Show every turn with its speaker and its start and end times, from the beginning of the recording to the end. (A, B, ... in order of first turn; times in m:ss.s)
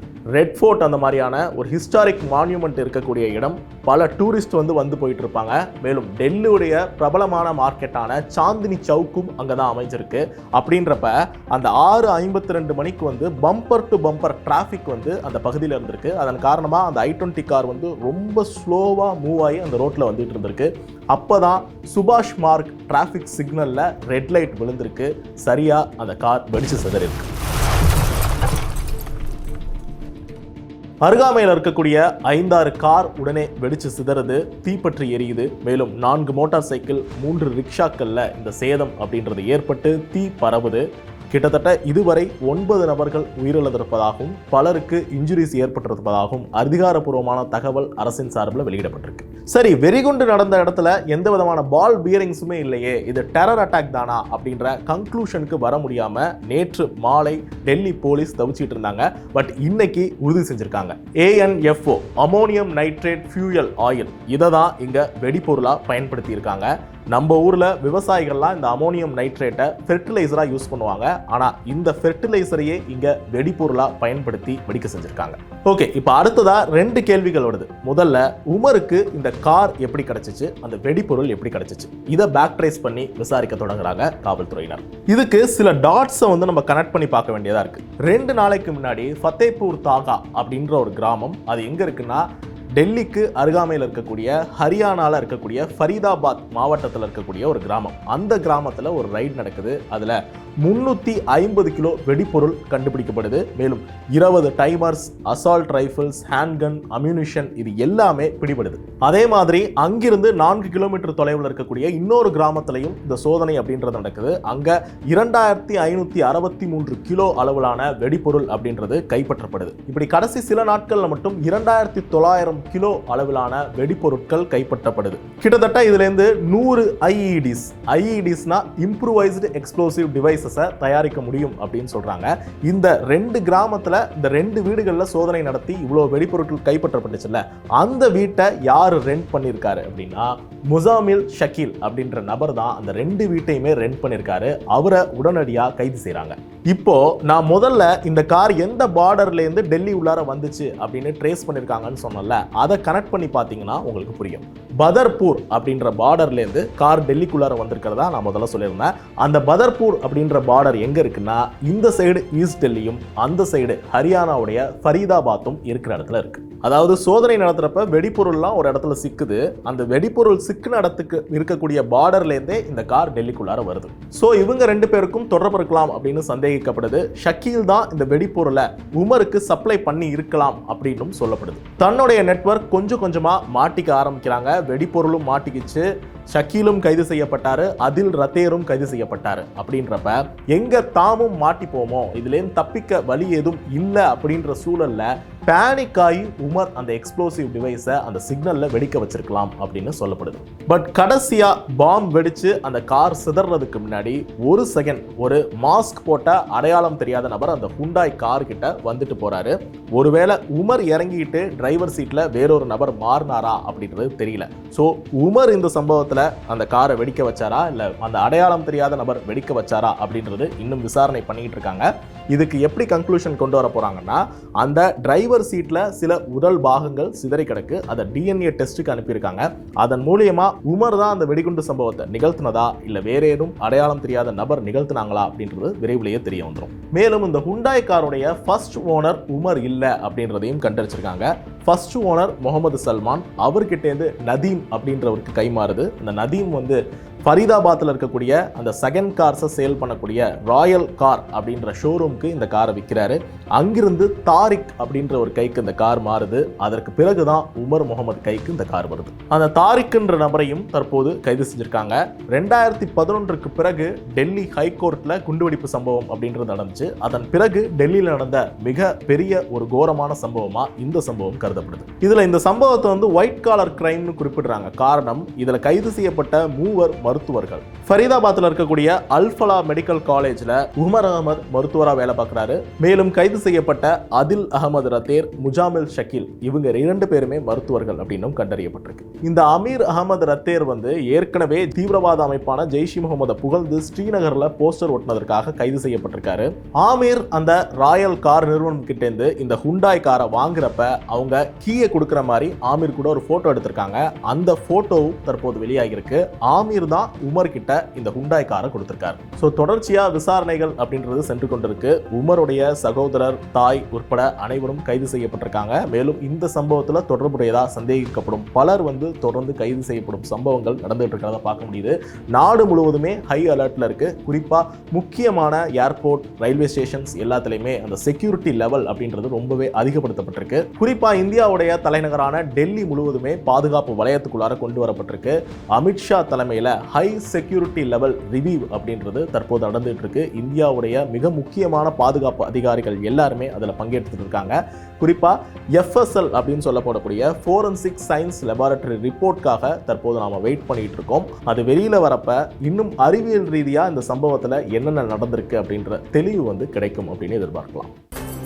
0:00.3-0:27.3 A
0:31.0-1:32.2 A
1:32.8-5:57.9 A